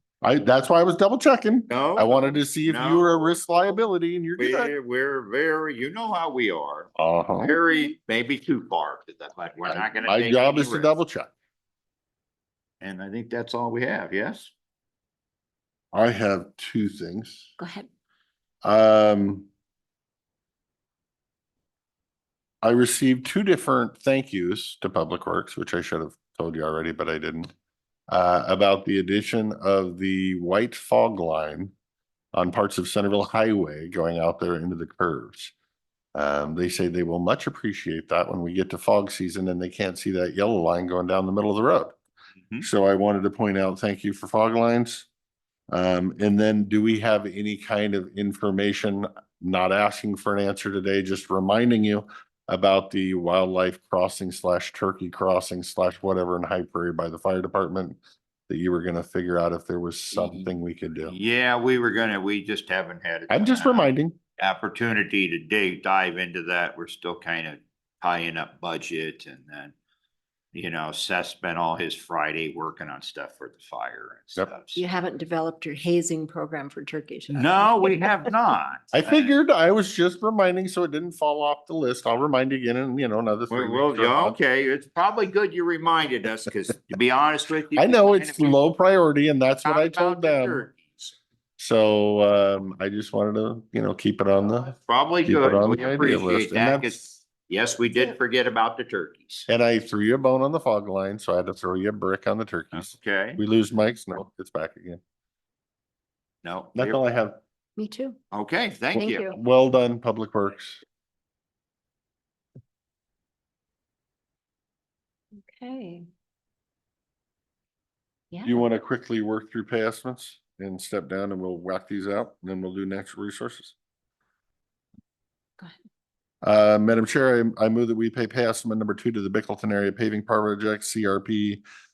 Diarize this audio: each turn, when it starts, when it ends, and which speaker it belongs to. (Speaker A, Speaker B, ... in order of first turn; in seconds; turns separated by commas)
Speaker A: 0.2-4.7, Speaker B: 1.7-3.4, Speaker B: 4.4-10.9, Speaker A: 7.0-7.6, Speaker A: 9.7-11.3, Speaker B: 12.8-14.5, Speaker A: 15.9-17.5, Speaker C: 17.6-17.9, Speaker A: 18.6-19.5, Speaker A: 22.6-27.5, Speaker A: 28.1-31.7, Speaker A: 32.3-35.5, Speaker A: 36.1-42.0, Speaker A: 42.6-45.1, Speaker A: 45.7-61.1, Speaker B: 60.1-60.5, Speaker B: 61.0-69.7, Speaker A: 63.3-64.2, Speaker B: 70.5-74.8, Speaker C: 74.8-78.1, Speaker B: 77.3-79.3, Speaker A: 78.9-84.4, Speaker B: 83.5-88.6, Speaker A: 87.8-90.7, Speaker B: 89.6-91.2, Speaker A: 91.6-94.7, Speaker B: 94.7-99.5, Speaker A: 95.2-97.2, Speaker A: 99.5-105.0, Speaker B: 102.7-103.4, Speaker B: 106.4-107.0, Speaker A: 106.8-107.4, Speaker C: 107.8-108.2, Speaker B: 108.3-109.3, Speaker C: 108.9-109.4, Speaker A: 109.0-110.8, Speaker C: 115.4-116.0, Speaker C: 118.3-118.6, Speaker A: 118.4-123.7, Speaker A: 126.4-131.6